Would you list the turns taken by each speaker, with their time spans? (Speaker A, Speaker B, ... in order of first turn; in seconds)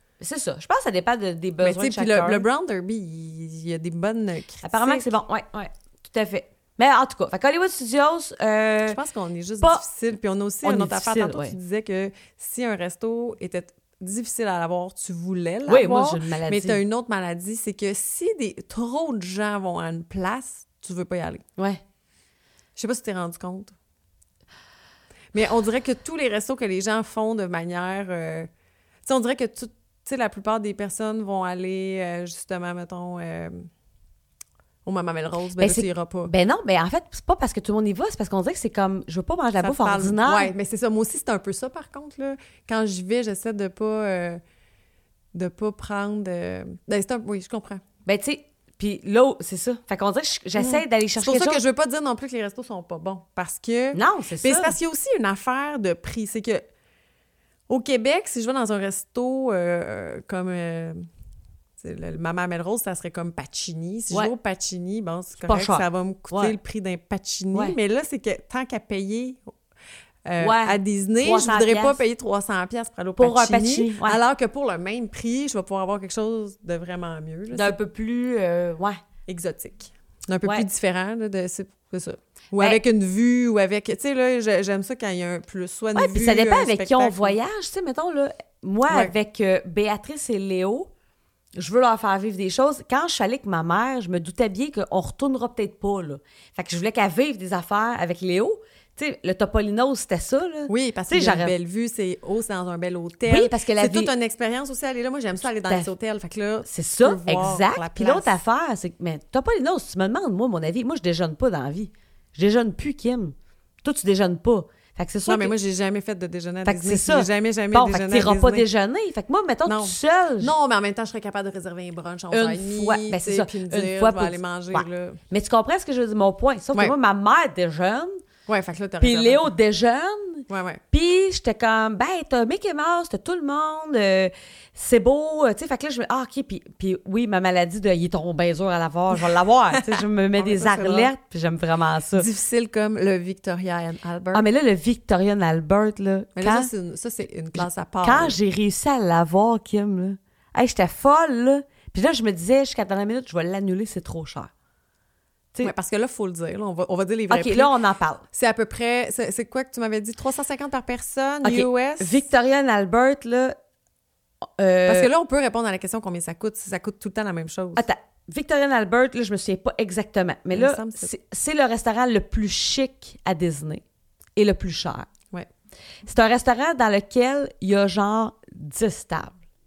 Speaker A: 0.2-2.4, 4.6-9.0, 10.6-11.5, 15.7-16.8, 35.6-40.5, 48.0-51.6, 53.9-54.8, 65.4-66.5, 70.4-72.0, 73.2-74.2, 77.5-79.0, 85.9-90.9, 91.5-101.5, 103.2-104.1, 105.6-105.9, 106.6-115.5, 116.6-120.5, 122.3-128.2, 129.0-142.3, 144.3-146.7, 147.5-154.5, 157.3-158.2, 161.4-163.6, 164.6-165.1, 167.8-173.8, 174.3-175.1, 176.1-179.4
Speaker B: 1.6-5.1, 8.9-21.4, 22.8-23.7, 25.3-28.5, 29.1-33.7, 34.8-36.3, 39.6-44.4, 45.3-47.8, 50.6-56.6, 57.7-61.0, 61.8-69.5, 70.2-77.8, 79.3-87.3, 88.9-89.1, 100.7-108.3, 115.2-118.7, 119.7-125.2, 128.5-129.5, 130.5-130.8, 139.7-141.1, 142.2-144.4, 146.3-148.4, 155.6-157.7, 158.3-162.2, 164.9-167.8, 170.5-171.1